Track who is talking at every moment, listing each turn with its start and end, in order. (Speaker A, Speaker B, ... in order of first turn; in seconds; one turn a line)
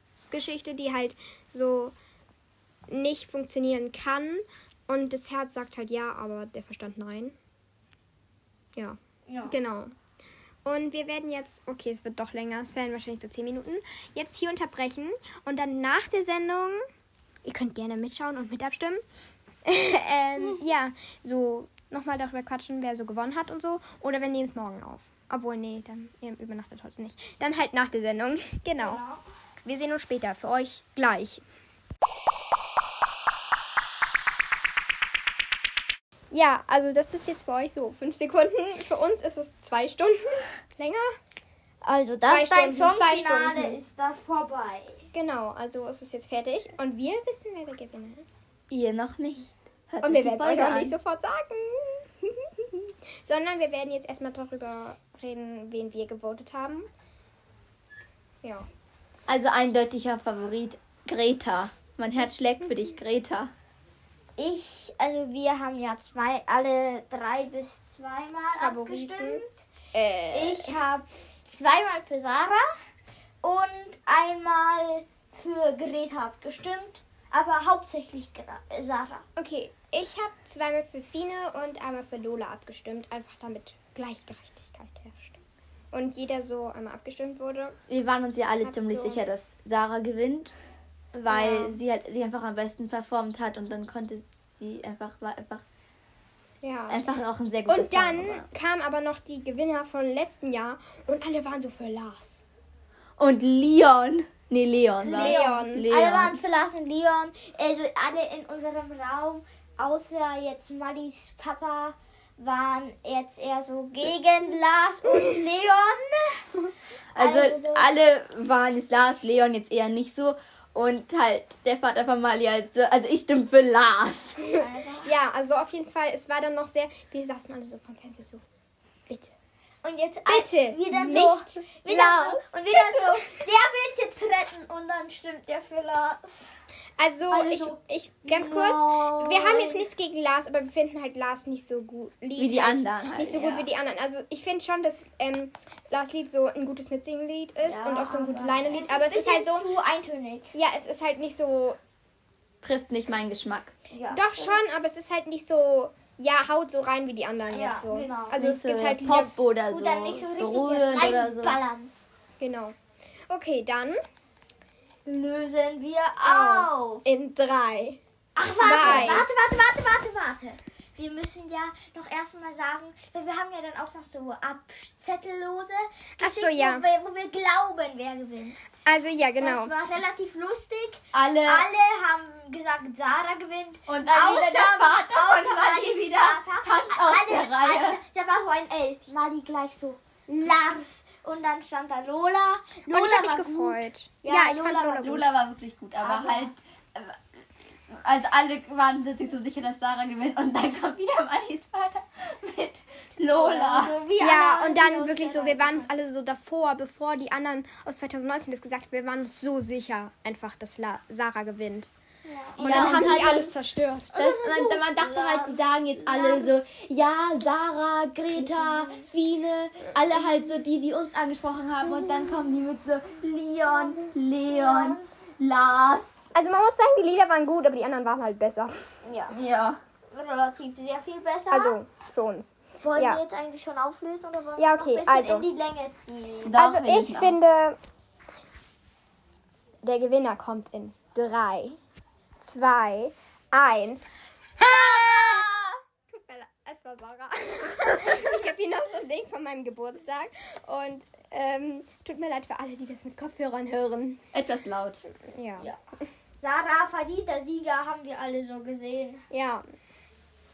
Speaker A: 0.2-1.9
Speaker A: 2.9-7.3
Speaker A: 8.8-9.9
Speaker B: 9.3-9.6
Speaker A: 10.7-16.8
Speaker A: 17.4-19.0
Speaker A: 19.7-29.0
Speaker B: 28.8-29.2
Speaker A: 29.6-31.4
Speaker A: 36.3-41.1
Speaker B: 41.8-45.0
Speaker A: 42.2-43.8
Speaker A: 45.1-48.4
Speaker C: 48.7-51.0
Speaker A: 50.0-56.9
Speaker C: 59.3-63.5
Speaker B: 64.4-69.6
Speaker A: 68.6-70.7
Speaker B: 70.3-72.7
Speaker B: 73.4-79.2
Speaker A: 79.4-85.4
Speaker A: 85.9-87.8
Speaker C: 87.9-90.5
Speaker A: 88.6-89.3
Speaker C: 91.1-95.6
Speaker A: 91.3-91.8
Speaker A: 96.6-97.0
Speaker C: 96.9-98.5
Speaker A: 97.7-102.4
Speaker C: 103.2-106.4
Speaker B: 105.0-116.4
Speaker A: 105.1-105.9
Speaker C: 117.2-124.4
Speaker B: 117.2-117.9
Speaker A: 124.4-128.4
Speaker B: 124.5-125.1
Speaker B: 129.8-136.5
Speaker A: 130.2-132.6
Speaker A: 137.0-149.7
Speaker B: 137.3-139.8
Speaker C: 142.4-143.5
Speaker B: 143.4-143.7
Speaker B: 147.7-150.5
Speaker A: 150.5-151.8
Speaker C: 152.6-153.7
Speaker B: 153.9-154.6
Speaker A: 154.1-159.3
Speaker B: 157.5-158.4
Speaker C: 158.4-161.6
Speaker B: 159.7-161.9
Speaker A: 162.4-162.8
Speaker A: 163.3-164.0
Speaker B: 165.1-167.0
Speaker A: 166.2-169.3
Speaker B: 168.3-178.6
Speaker C: 168.8-169.2
Speaker A: 176.2-176.9
Speaker A: 178.9-179.7
Speaker B: 179.4-195.0
Speaker C: 181.1-181.7
Speaker C: 183.9-188.0
Speaker A: 192.9-195.3
Speaker C: 194.8-203.9
Speaker B: 196.0-196.5
Speaker B: 203.3-206.0
Speaker A: 204.2-211.9
Speaker B: 212.2-213.4
Speaker A: 212.6-214.2
Speaker C: 212.6-213.6
Speaker B: 214.1-216.7
Speaker C: 214.1-226.3
Speaker B: 218.4-219.0
Speaker B: 224.5-225.1
Speaker A: 226.3-229.0
Speaker B: 229.0-229.4
Speaker C: 229.3-229.8
Speaker B: 230.1-231.8
Speaker A: 231.5-233.2
Speaker B: 232.8-236.6
Speaker A: 234.6-235.5
Speaker C: 236.4-237.4
Speaker A: 236.6-237.8
Speaker A: 239.8-241.8
Speaker A: 242.4-244.1
Speaker C: 244.6-245.7
Speaker A: 246.1-254.2
Speaker C: 254.3-255.0
Speaker A: 255.3-255.7
Speaker B: 256.4-259.2
Speaker A: 259.3-259.6